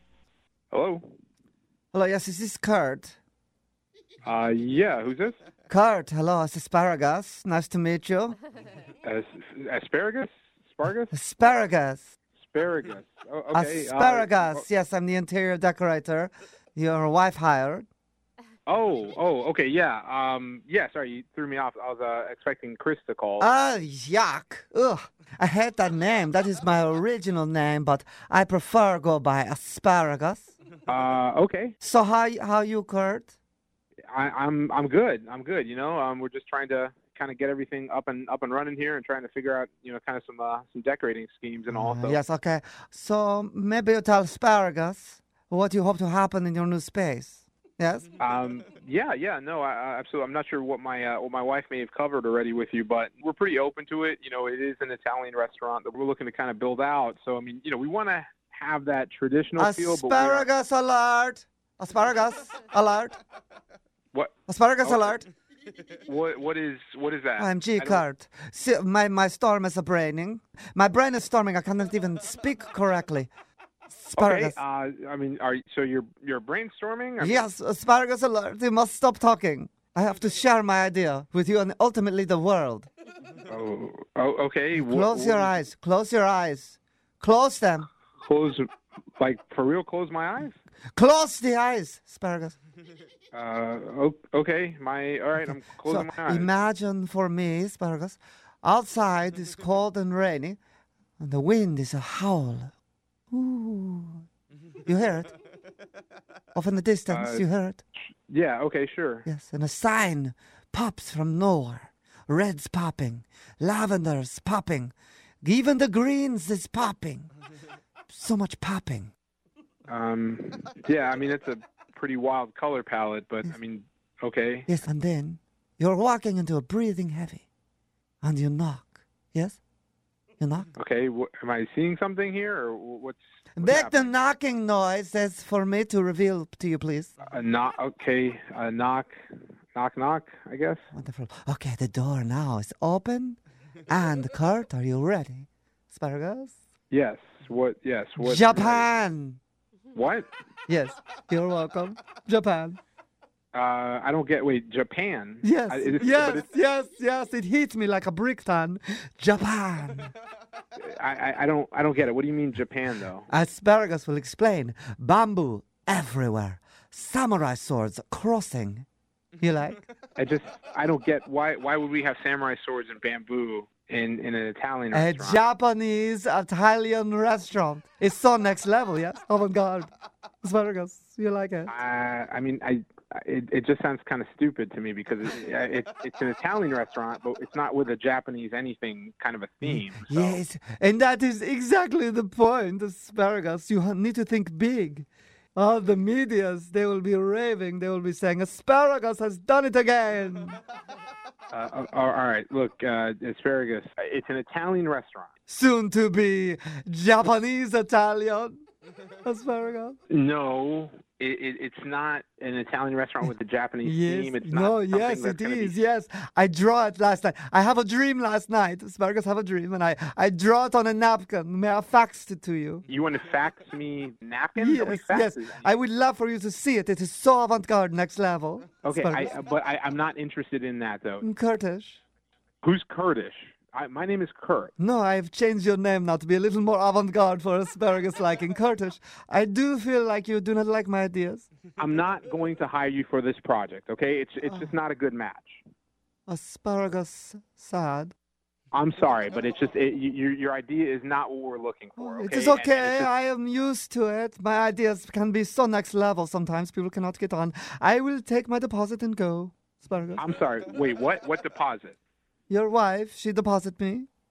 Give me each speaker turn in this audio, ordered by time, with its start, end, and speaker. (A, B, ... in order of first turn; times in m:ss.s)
0:00.7-0:01.0 A
0:01.9-0:03.2 B
0:04.2-0:05.4 A
0:05.7-0:08.4 B
0:09.0-0:11.5 A
0:11.1-0:12.1 B
0:12.4-0:14.6 A
0:13.5-0:17.9 B
0:18.7-0:23.5 A
0:23.4-0:30.5 B
0:30.9-0:31.8 A
0:31.8-0:33.3 B
0:34.1-0:42.2 A
0:41.7-0:48.1 B
0:48.2-1:00.5 A
0:59.6-1:03.2 B
1:04.5-1:05.3 B
1:04.8-1:05.2 A
1:06.0-1:08.0 A
1:07.4-1:13.3 B
1:13.9-1:14.6 B
1:14.2-1:17.5 A
1:17.2-1:22.9 B
1:23.5-1:25.6 A
1:24.8-1:27.9 B
1:28.2-1:28.6 A
1:29.2-1:30.6 A
1:31.0-1:32.6 B
1:33.3-1:36.5 A
1:35.4-1:40.6 B
1:41.2-1:42.7 B
1:43.3-1:44.2 B
1:44.9-1:45.3 B
1:46.6-1:47.8 B
1:47.1-1:47.4 A
1:48.3-1:49.3 A
1:49.3-1:57.3 B
1:58.1-1:59.1 B
1:59.9-2:04.7 A
2:04.7-2:07.4 B
2:08.2-2:09.6 B
2:10.4-2:10.7 B
2:10.8-2:14.1 A
2:13.6-2:17.1 B
2:17.2-2:19.2 A
2:19.7-2:20.9 A
2:20.9-2:26.6 B
2:26.9-2:28.9 A
2:28.2-2:29.4 B
2:29.9-2:30.3 A
2:30.7-2:32.8 B
2:33.5-2:36.4 A
2:35.4-2:40.1 B
2:40.8-2:43.3 A
2:43.3-2:48.9 B
2:49.4-2:49.9 B
2:50.2-2:55.4 A
2:54.9-2:59.9 B
3:00.4-3:01.7 B
3:01.7-3:10.4 A
3:09.6-3:20.6 B
3:21.5-3:25.3 A
3:25.5-3:28.6 B
3:29.2-3:30.0 B
3:30.1-3:35.8 A
3:33.8-3:42.9 B
3:42.9-3:45.7 A
3:44.6-3:49.3 B
3:48.8-3:51.3 A
3:51.2-3:52.0 B
3:52.6-3:54.7 A
3:54.8-4:01.5 B
4:01.8-4:05.6 A
4:06.3-4:08.1 B
4:08.7-4:13.1 A
4:12.0-4:20.2 B
4:20.2-4:22.0 A
4:22.5-4:24.1 B